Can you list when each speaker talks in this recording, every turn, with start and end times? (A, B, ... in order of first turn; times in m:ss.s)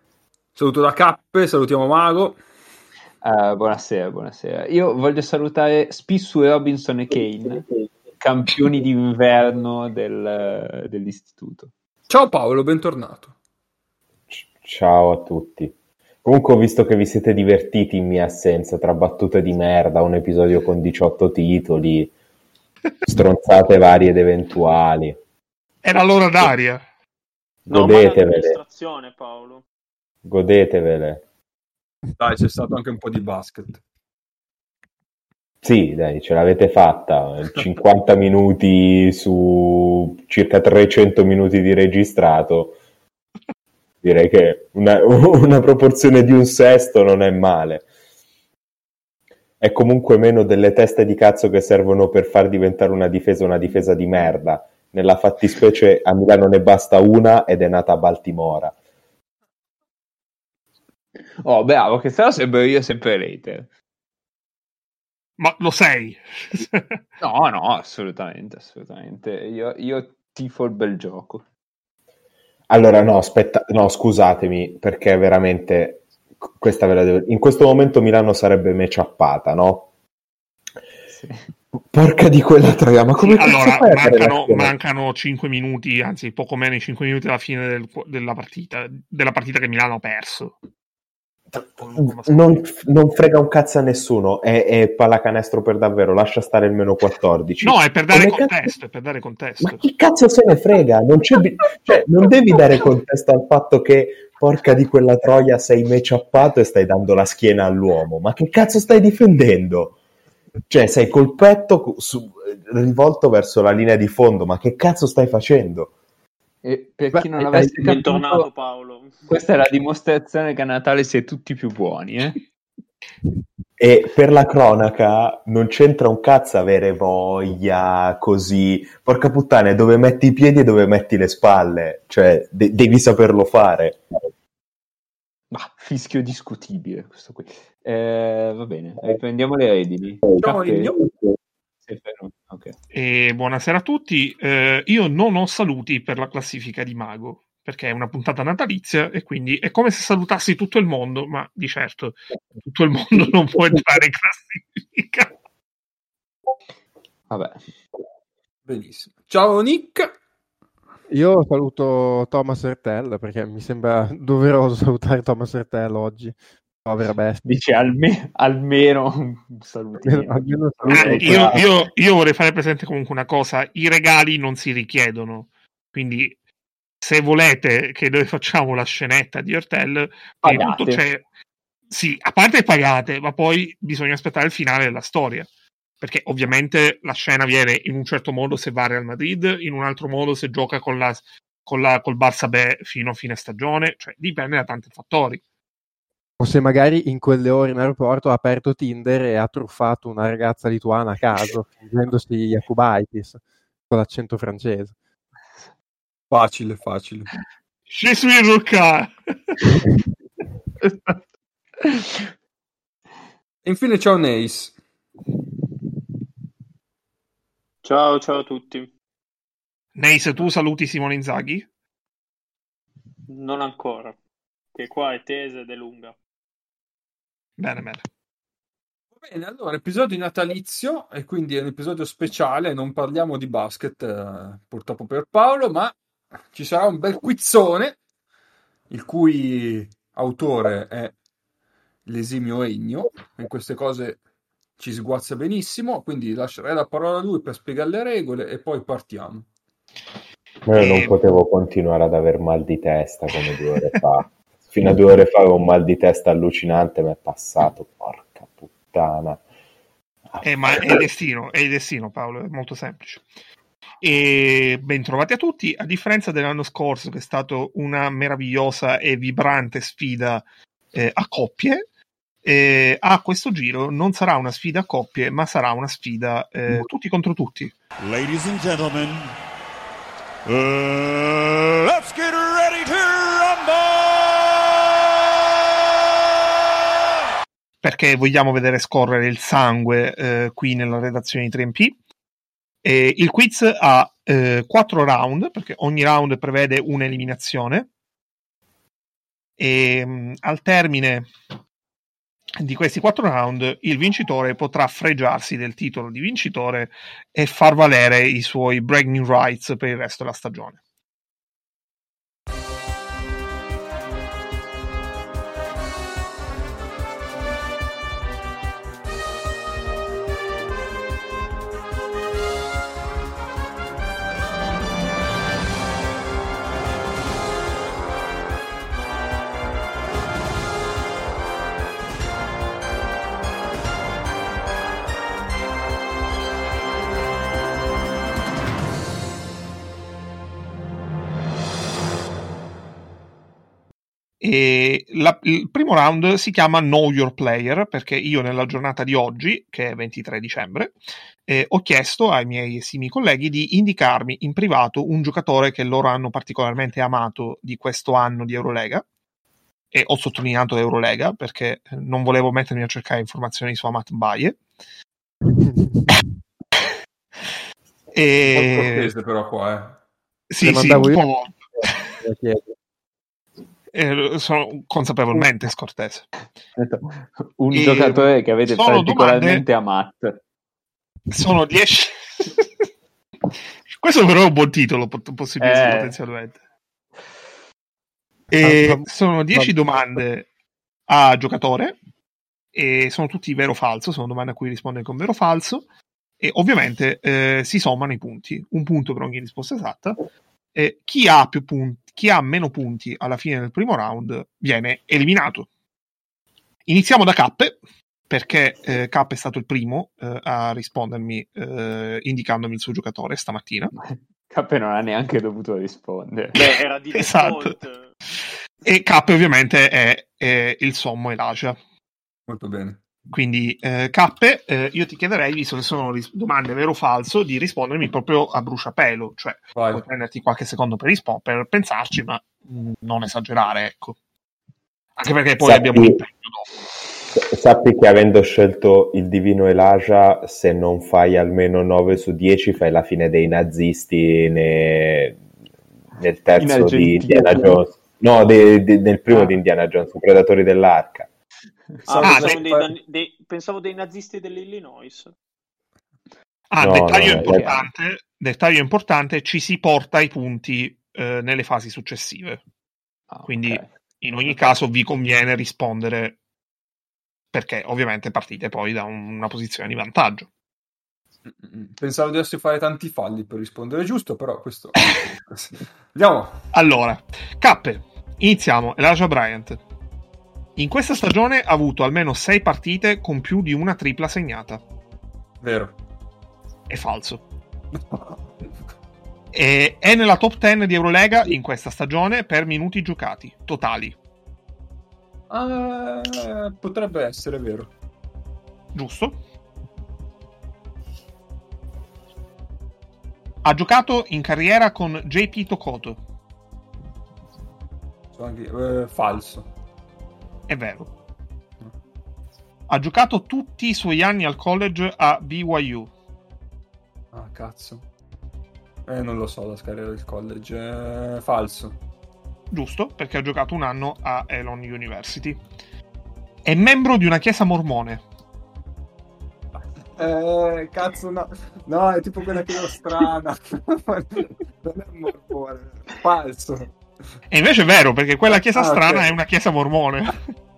0:00.6-0:02.4 A
0:03.2-0:11.7 B
0:12.1-0:13.3 A
0:14.3-0:22.1 C
0:23.0-0:25.2 C
0:25.8-0:26.8 D
0:27.7-0:28.6 C
0:27.7-0:29.6 E
0:30.2-0:31.2 C
0:32.2-0:33.8 A
0:35.6-0:42.8 C
0:44.0-0:47.9 C
0:49.6-0:58.8 C
1:01.4-1:03.7 B
1:05.4-1:07.0 D
1:07.2-1:11.4 B
1:12.7-1:19.9 C
1:21.1-1:21.4 B
1:21.9-1:24.7 C
1:23.2-1:30.6 D
1:31.6-1:38.7 C
1:31.6-1:32.6 D
1:37.6-1:39.8 D
1:39.6-1:50.0 C
1:50.7-1:55.9 C
1:56.6-1:58.5 B
1:57.1-1:57.9 F
1:57.8-1:59.3 E
1:59.3-2:02.4 B
2:03.8-2:14.0 C
2:15.5-2:20.9 B
2:20.4-2:21.1 A
2:21.9-2:22.8 B
2:22.9-2:35.3 D
2:37.3-2:37.6 B
2:38.6-2:40.1 A
2:41.1-2:47.5 F
2:47.4-2:51.6 B
2:50.0-2:51.7 F
2:50.9-2:56.4 D
2:57.0-3:01.2 D
3:00.4-3:01.0 B
3:01.9-3:05.5 D
3:06.0-3:15.4 D
3:16.4-3:24.9 F
3:26.3-3:27.3 A
3:27.9-3:29.8 D
3:33.6-3:34.7 A
3:37.8-3:38.9 E
3:40.0-3:41.7 D
3:43.3-3:44.2 E
3:44.8-3:46.2 E
3:47.6-3:48.0 D
3:49.2-3:56.0 A
3:56.5-3:58.0 A
3:58.9-4:01.1 A
4:02.1-4:04.2 A
4:04.8-4:09.5 A
4:10.6-4:19.4 C
4:10.8-4:11.1 D
4:20.3-4:21.0 C
4:20.4-4:23.3 D
4:24.0-4:31.8 D
4:32.4-4:37.8 D
4:38.0-4:39.3 G
4:40.4-4:44.7 G
4:47.8-4:51.9 D
4:52.8-4:57.9 D
4:59.6-5:01.3 D
5:02.6-5:10.8 D
5:44.4-5:59.0 D
5:59.9-6:04.6 D
6:08.1-6:09.1 D
6:08.4-6:10.0 A
6:10.5-6:11.9 D
6:10.6-6:11.2 F
6:11.8-6:12.8 F
6:13.9-6:16.3 D
6:16.8-6:20.4 B
6:17.7-6:19.6 D
6:21.3-6:22.7 D
6:23.9-6:26.6 D
6:25.6-6:26.2 B
6:28.5-6:30.5 D
6:28.6-6:30.2 F
6:31.1-6:32.0 D
6:32.7-6:35.8 D
6:36.4-6:45.7 D
6:46.9-6:47.8 D
6:48.3-6:53.9 D
6:54.0-6:56.6 B
6:56.6-6:58.1 E
6:56.6-6:57.8 D
6:58.8-7:01.8 D
7:02.5-7:03.0 A
7:03.3-7:14.2 D
7:09.7-7:10.0 A
7:15.2-7:16.7 D
7:15.6-7:16.2 C
7:17.3-7:25.4 C
7:26.2-7:31.3 C
7:26.6-7:27.8 B
7:32.1-7:35.3 E
7:32.1-7:32.9 A
7:32.2-7:32.6 D
7:36.7-7:42.6 D
7:36.8-7:37.8 C
7:37.4-7:37.8 B
7:43.3-7:43.9 B
7:43.5-7:46.4 D
7:47.5-7:50.5 D
7:51.4-7:55.0 A
7:55.5-7:56.6 A
7:56.7-7:59.8 D
8:00.8-8:04.8 D
8:05.6-8:06.0 A
8:06.9-8:07.4 D
8:07.9-8:08.4 A
8:09.5-8:14.2 D
8:15.5-8:17.9 A
8:18.9-8:19.4 D
8:23.6-8:26.2 D
8:28.3-8:29.7 A
8:30.7-8:31.1 D
8:32.9-8:36.1 D
8:37.3-8:38.0 A
8:39.1-8:42.0 A
8:42.7-8:45.6 D
8:46.6-8:48.2 D
8:50.2-8:56.9 A
8:57.5-9:00.4 D
8:58.7-8:59.3 A